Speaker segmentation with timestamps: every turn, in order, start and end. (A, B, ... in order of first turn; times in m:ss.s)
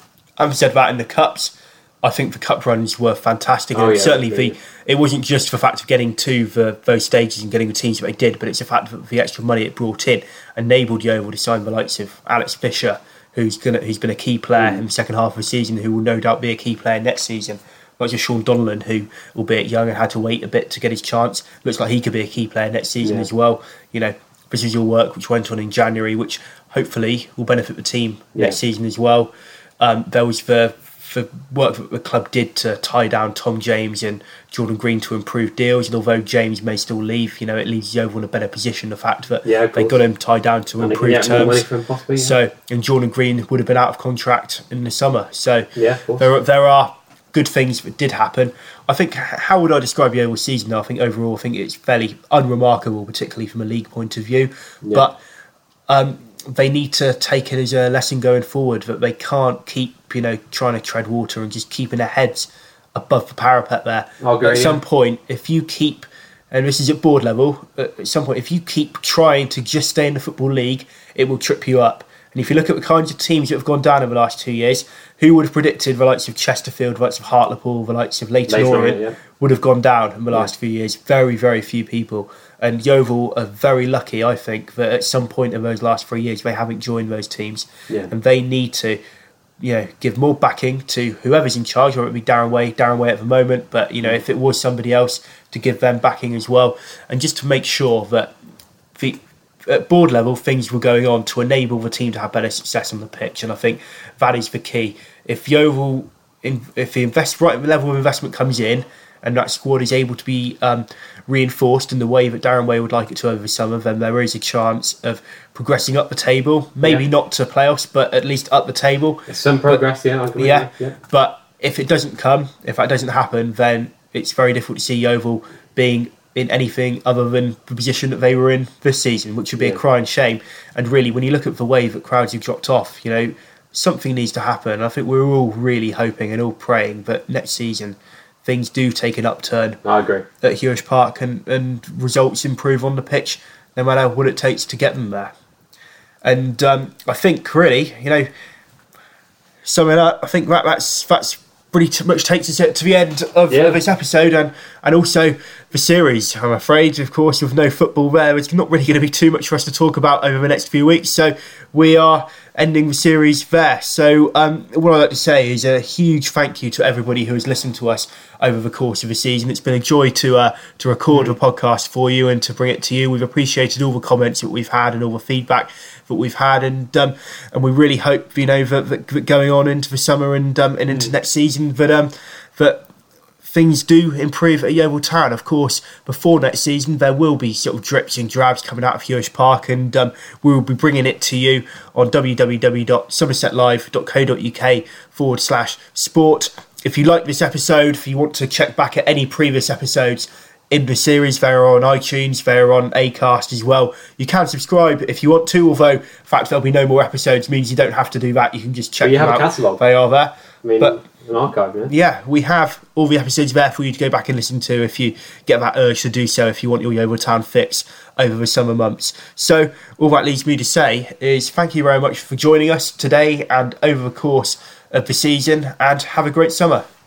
0:00.4-0:55.2 A
0:03.7-0:04.5 B
0:14.6-0:14.8 B
0:23.0-0:23.3 B
0:39.4-0:40.0 B
0:40.8-0:42.4 B
0:45.7-0:46.3 B
0:55.9-1:29.0 A
1:04.2-1:04.8 B
1:18.5-1:19.2 B
1:29.6-1:38.3 A
1:39.0-1:59.8 A
1:59.3-2:01.0 B
2:00.4-2:19.8 A
2:19.8-2:20.3 B
2:20.4-2:25.3 A
2:26.2-2:28.3 A
2:29.6-3:02.8 A
2:33.5-2:33.8 B
2:51.1-2:51.4 B
3:03.4-3:31.0 A
3:29.0-3:29.8 B
3:30.6-3:31.9 B
3:31.9-3:46.8 A